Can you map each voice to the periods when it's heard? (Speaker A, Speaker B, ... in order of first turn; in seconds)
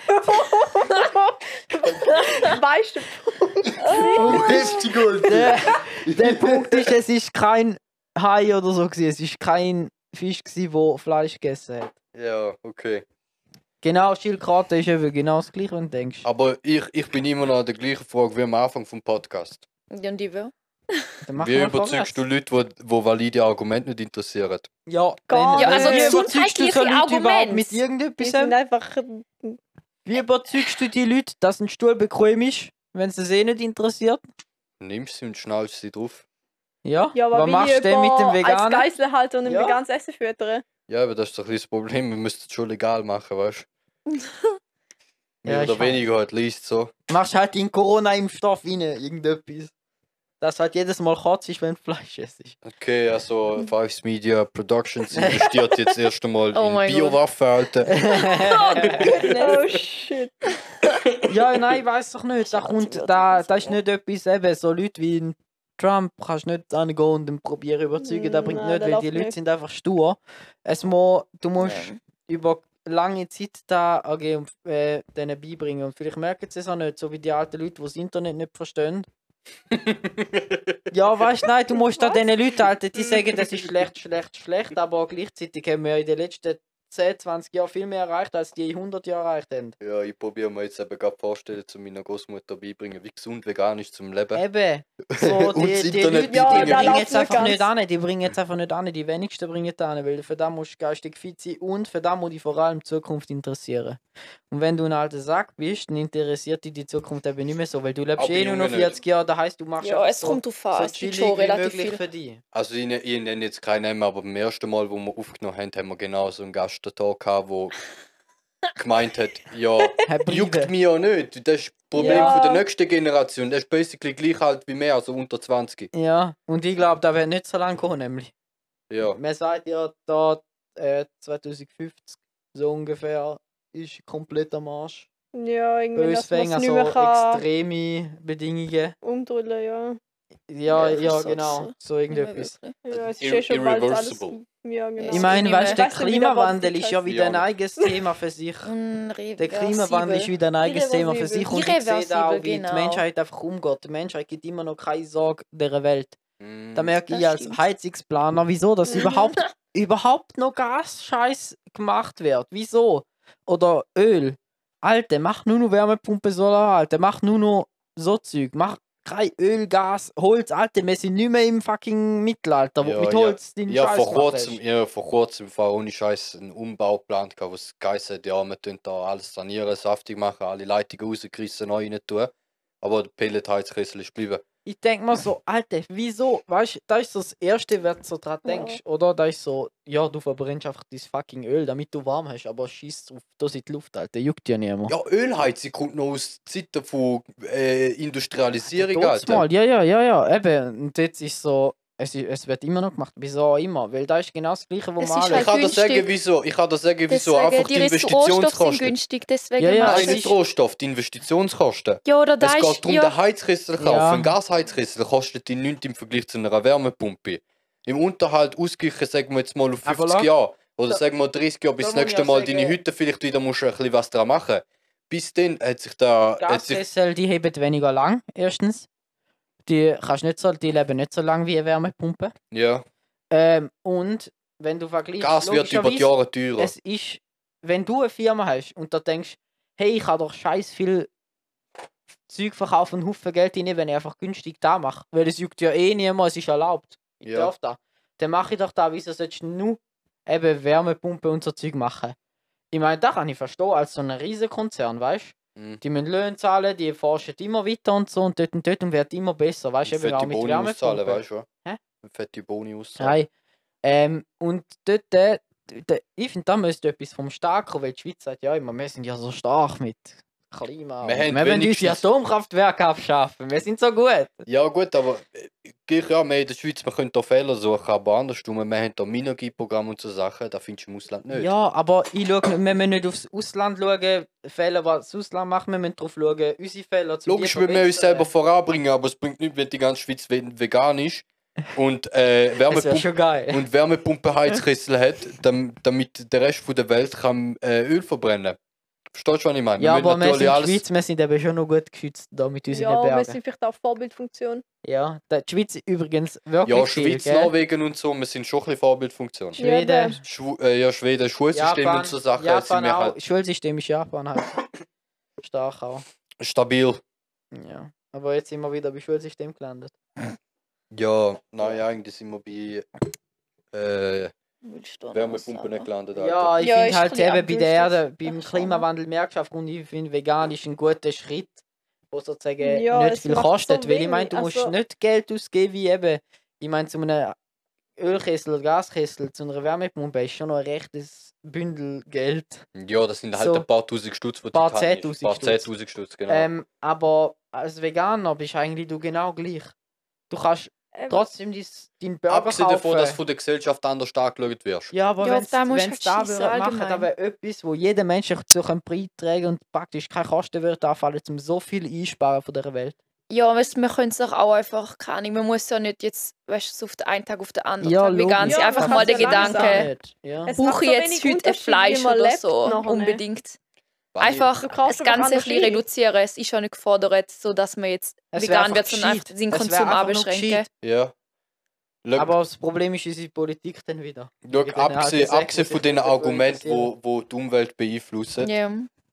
Speaker A: 0.3-5.2, 25.3-26.2, 28.2-29.6, 37.1-40.6, 59.2-60.4, 68.0-69.3, 96.2-97.7, 122.0-122.6, 135.3-137.4, 139.0-140.0, 142.8-147.0, 150.6-151.4, 302.7-304.6, 309.6-310.2, 332.6-334.7, 350.9-351.3, 368.4-369.9, 370.4-373.2, 374.6-375.8
Speaker B: 3.8-4.3, 19.9-21.1, 25.6-27.8, 44.1-44.6, 56.5-57.2, 58.3-59.6, 62.5-63.8, 71.6-72.0, 109.8-112.0, 140.7-142.8, 145.0-145.8, 148.7-150.3, 151.3-153.0, 157.1-157.6, 158.9-159.5, 205.0-206.1, 207.1-210.2, 212.1-213.1, 324.6-325.9, 326.6-328.9, 355.2-357.1, 363.3-369.9, 370.6-373.6, 374.2-380.7, 388.4-388.9
Speaker C: 4.2-11.9, 13.8-16.3, 21.3-22.2, 24.9-28.6, 30.1-34.2, 36.9-38.9, 39.5-39.8, 45.5-46.0, 47.1-49.7, 50.4-52.6, 55.2-55.5, 57.9-59.3, 61.2-79.1, 80.9-89.8, 94.3-112.4, 120.0-120.7, 122.0-122.4, 125.9-128.3, 129.1-135.1, 135.9-139.0, 140.5-142.6, 145.1-148.7, 149.4-156.2, 156.8-174.6, 184.7-194.9, 198.7-205.5, 209.6-210.3, 213.8-214.3, 219.8-220.3, 221.8-222.8, 226.4-228.9, 229.7-232.3, 233.3-241.1, 242.3-252.2, 252.7-261.8, 263.0-263.3, 263.8-274.4, 281.3-288.3, 292.7-293.6, 299.8-303.4, 304.8-307.5, 309.6-310.2, 311.5-314.6, 315.4-316.0, 317.5-319.9, 326.1-337.4, 338.0-342.7, 343.4-343.7, 344.5-345.7, 346.3-349.7, 350.3-353.2, 354.9-363.0, 367.8-370.5, 378.3-380.7, 382.2-386.9
Speaker D: 4.2-6.9, 12.1-13.1, 16.2-19.6, 21.4-24.7, 34.8-36.2, 40.9-43.7, 45.4-46.9, 52.6-58.1, 58.7-59.4, 79.7-80.8, 83.0-83.7, 89.8-94.4, 95.0-97.3, 108.2-109.0, 112.5-117.8, 118.8-125.9, 128.9-129.2, 142.9-144.4, 147.1-147.5, 156.4-156.9, 172.8-184.4, 194.9-199.4, 205.3-209.0, 209.8-226.8, 232.5-232.8, 235.2-236.7, 247.2-247.5, 255.6-255.8, 259.9-261.5, 262.0-263.2, 271.0-272.1, 274.5-281.5, 287.3-298.6, 299.1-300.8, 306.6-309.6, 310.2-313.2, 316.4-317.0, 320.9-322.9, 323.7-324.3, 325.1-326.6, 342.8-346.5, 352.3-354.9, 374.1-374.5, 380.8-381.1, 382.0-382.3, 384.4-388.5